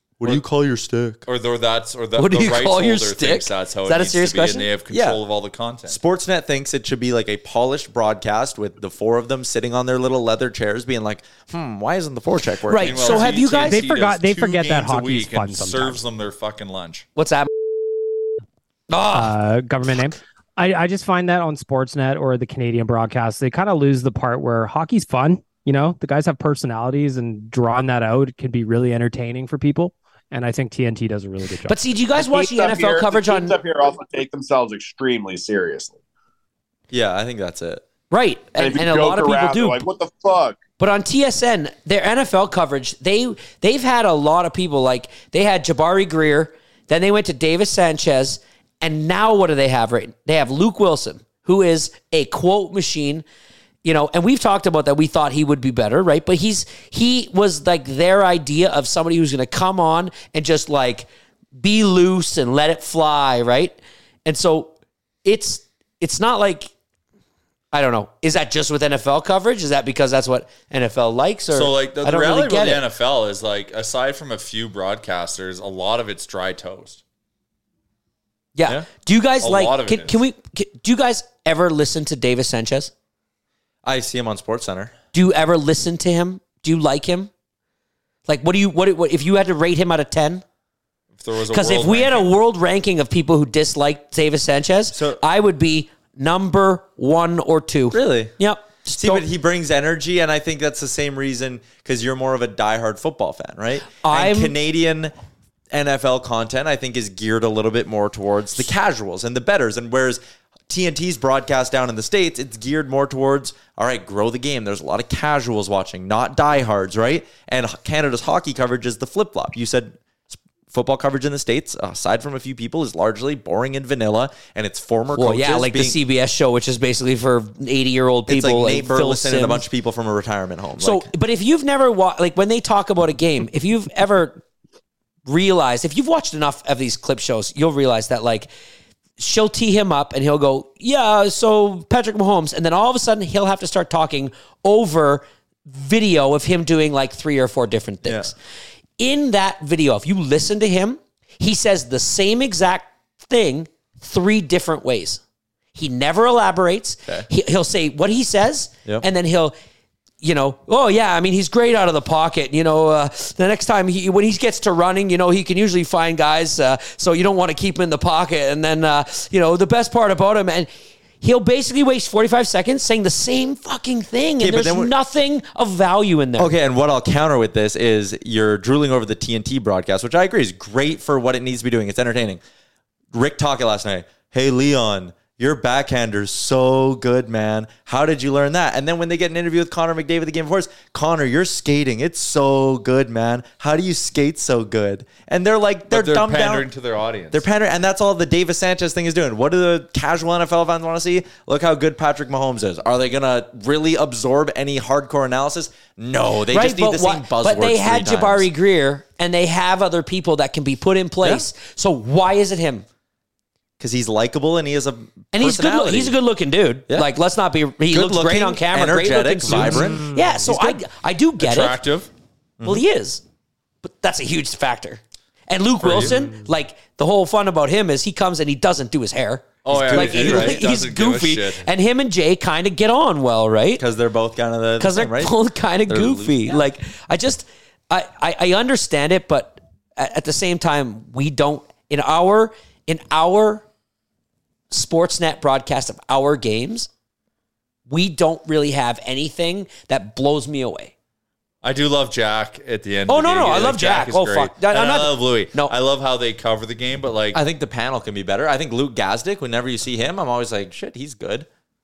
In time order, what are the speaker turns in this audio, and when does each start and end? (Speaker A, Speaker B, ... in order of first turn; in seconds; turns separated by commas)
Speaker A: 0.2-1.2, Speaker B: 1.3-6.0, Speaker C: 2.2-4.7, Speaker A: 4.9-5.2, Speaker A: 5.9-13.4, Speaker C: 12.7-13.8, Speaker B: 12.8-17.1, Speaker D: 13.6-16.0, Speaker C: 17.2-17.5, Speaker C: 18.9-19.3, Speaker D: 19.1-31.8, Speaker C: 31.7-33.6, Speaker E: 32.1-36.0, Speaker A: 36.9-37.8, Speaker C: 38.1-39.8, Speaker E: 38.6-40.6, Speaker C: 40.8-53.2, Speaker C: 53.8-66.7, Speaker C: 67.7-72.8, Speaker B: 71.5-77.0, Speaker C: 78.5-82.9, Speaker B: 79.4-80.2, Speaker A: 83.8-84.9, Speaker C: 85.1-87.3, Speaker C: 88.3-90.4, Speaker B: 91.2-92.3, Speaker C: 91.5-99.3, Speaker A: 94.9-95.2, Speaker A: 97.9-98.3, Speaker A: 98.9-105.1, Speaker C: 104.0-104.5, Speaker A: 105.7-126.0, Speaker C: 125.2-129.7, Speaker A: 128.3-131.1, Speaker C: 130.8-134.4, Speaker C: 135.3-138.5, Speaker C: 139.2-148.3, Speaker A: 148.0-148.3, Speaker C: 149.0-155.2, Speaker C: 155.8-159.6, Speaker C: 160.2-170.7, Speaker C: 171.2-176.5, Speaker A: 174.4-174.9, Speaker A: 176.4-182.4, Speaker A: 183.1-196.7, Speaker B: 195.9-197.4, Speaker A: 197.3-208.5, Speaker C: 206.5-212.9, Speaker A: 211.2-211.5, Speaker A: 213.8-216.2, Speaker C: 215.3-221.8, Speaker A: 217.9-220.6, Speaker D: 219.9-220.5, Speaker B: 221.4-222.1, Speaker A: 222.6-222.8, Speaker C: 222.6-223.2, Speaker C: 223.8-233.8, Speaker B: 225.8-226.1, Speaker B: 229.7-231.7, Speaker A: 229.7-230.6, Speaker A: 233.8-235.4, Speaker C: 234.8-243.7, Speaker A: 235.9-236.7, Speaker C: 244.7-246.9, Speaker C: 247.9-250.9, Speaker B: 251.6-257.4, Speaker C: 253.1-255.8, Speaker A: 257.3-261.5